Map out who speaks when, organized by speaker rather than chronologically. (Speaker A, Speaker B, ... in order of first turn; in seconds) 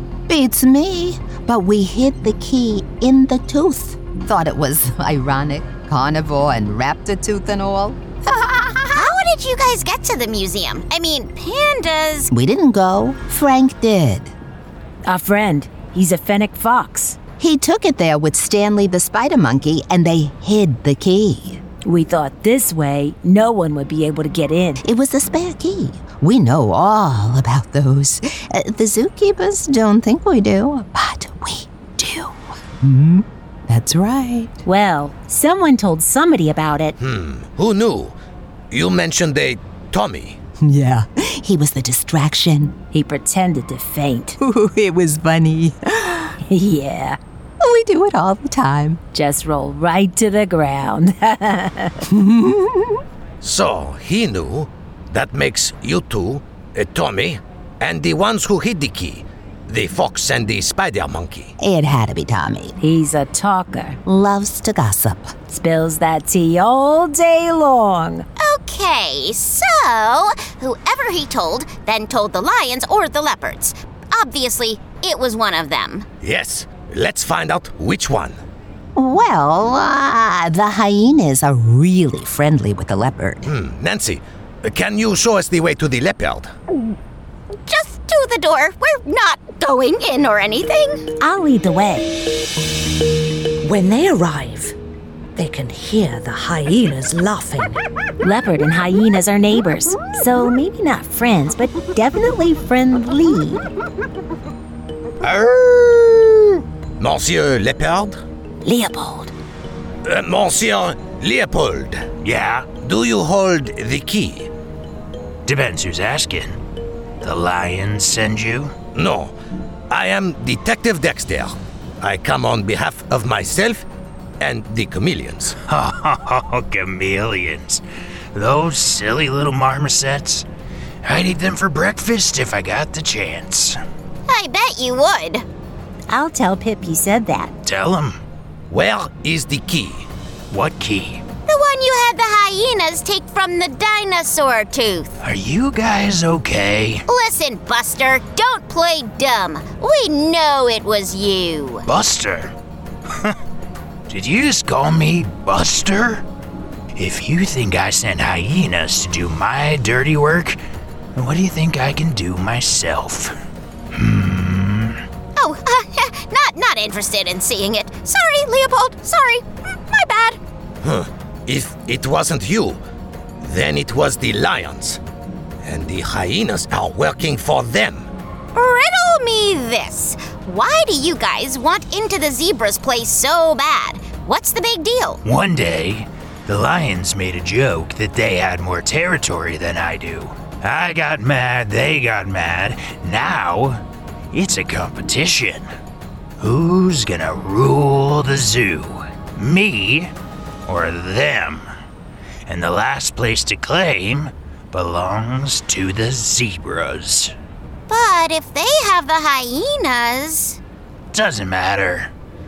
Speaker A: 0.3-9.0, 12.3-14.3, 17.3-21.6, 24.8-34.6, 40.6-42.8, 44.4-46.4, 47.6-49.0, 52.1-53.0, 61.6-62.8, 64.0-65.4, 79.0-83.5
Speaker B: 8.9-12.3, 68.4-76.0, 87.7-91.1, 134.3-135.4, 141.5-145.2, 147.1-151.8, 165.3-170.4, 178.5-185.2, 207.9-210.6
Speaker C: 15.1-17.2, 21.8-24.8, 34.6-36.9, 42.9-44.4, 46.4-47.2, 49.1-52.1, 62.8-64.0, 65.4-68.2, 91.2-92.0, 98.2-103.6, 108.6-109.3, 136.1-137.5
Speaker D: 37.0-38.1, 38.7-40.4, 53.4-61.5, 76.2-78.4, 83.4-86.5, 107.0-108.2, 110.0-112.1, 112.7-114.5, 118.9-119.3, 119.9-123.8, 124.4-125.6, 138.7-140.1, 170.8-172.8, 173.4-175.0, 175.6-178.1
Speaker E: 93.6-94.8, 95.3-97.8
Speaker F: 105.3-106.1, 112.2-112.7, 115.5-116.6, 117.2-118.7, 125.7-127.8, 128.3-130.4, 131.0-133.8, 137.6-138.2, 140.5-141.2, 145.2-147.0, 151.9-152.5, 154.1-156.2, 156.9-160.6, 161.1-163.3, 163.9-165.0, 185.2-193.8, 194.3-195.7, 196.4-200.1, 200.7-201.7, 202.5-207.3, 211.1-212.1